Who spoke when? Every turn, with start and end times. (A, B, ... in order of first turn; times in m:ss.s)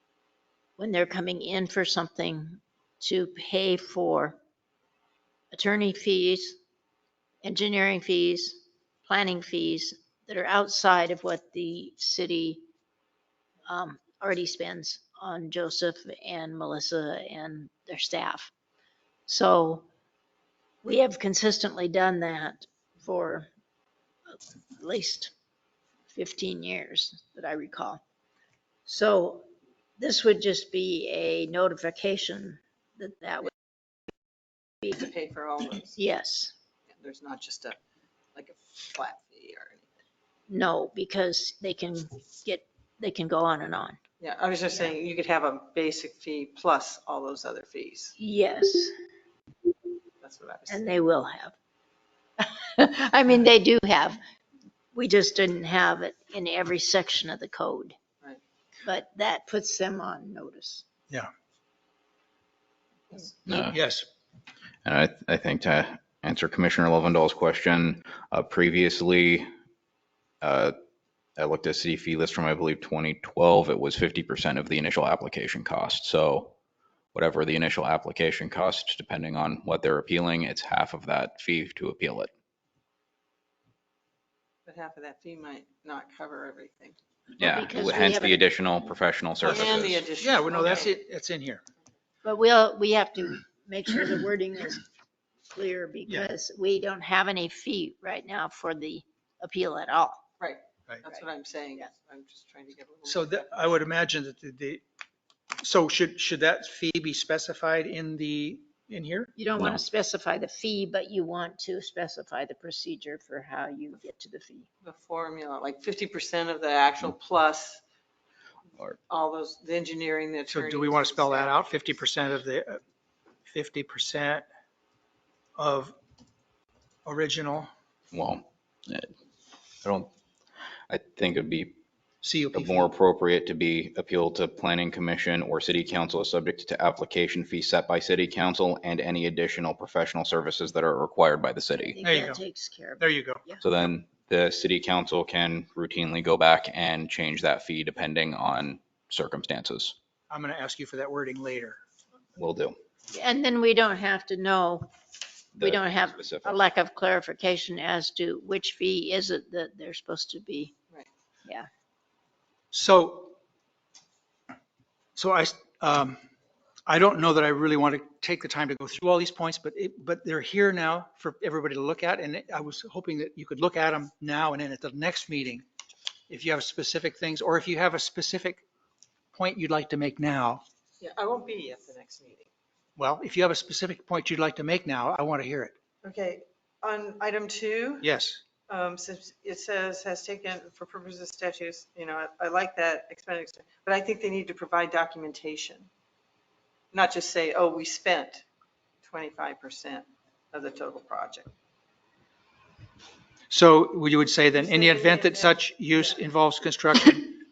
0:00.8-0:04.4 A
0:05.5-0:06.6 A
0:07.4-0:12.6 A
0:13.7-0:18.5 A
0:19.3-0:19.8 A
0:20.8-0:23.5 A
0:24.3-0:25.3 A
0:26.1-0:28.0 A
0:28.8-0:29.5 A
0:30.0-0:33.5 A
0:34.8-0:36.0 B
0:35.9-0:36.5 A
0:37.0-0:37.8 B
0:38.3-0:40.0 B
0:40.5-0:44.0 A
0:44.2-0:48.1 B
0:48.2-0:48.9 A
0:50.2-0:50.9 B
0:50.7-0:51.6 A
0:52.4-0:54.2 A
0:54.9-0:58.0 A
0:58.8-1:00.8 A
1:03.5-1:03.8 C
1:03.5-1:04.1 D
1:04.8-1:09.5 C
1:10.4-1:10.7 C
1:11.4-1:16.6 C
1:17.1-1:22.3 C
1:24.7-1:27.0 B
1:27.4-1:28.4 A
1:27.4-1:30.0 C
1:29.4-1:31.0 B
1:29.5-1:29.8 A
1:30.2-1:31.6 D
1:32.2-1:34.8 A
1:35.5-1:40.2 A
1:40.4-1:43.8 B
1:43.0-1:44.8 D
1:45.6-1:49.3 D
1:49.4-1:54.7 A
1:49.6-1:49.8 C
1:54.8-1:57.8 B
1:59.1-2:01.7 B
2:00.5-2:02.8 D
2:03.5-2:04.4 D
2:05.6-2:06.0 D
2:07.0-2:07.7 D
2:08.1-2:09.1 C
2:09.8-2:10.1 C
2:10.9-2:11.8 C
2:12.2-2:12.9 D
2:12.5-2:22.0 C
2:21.8-2:23.6 A
2:22.0-2:22.4 D
2:23.0-2:23.4 D
2:23.6-2:29.9 C
2:30.3-2:31.8 D
2:32.4-2:32.8 C
2:33.1-2:34.9 A
2:35.6-2:36.6 C
2:35.6-2:40.7 A
2:42.7-2:43.4 D
2:45.2-2:46.2 D
2:46.9-2:55.6 D
2:56.3-2:58.6 D
2:59.3-3:00.6 D
3:01.0-3:02.5 B
3:03.0-3:05.8 D
3:06.0-3:08.1 B
3:08.0-3:08.4 D
3:08.7-3:15.9 B
3:16.9-3:18.4 B
3:19.0-3:21.5 B
3:23.5-3:27.4 D
3:24.5-3:26.2 B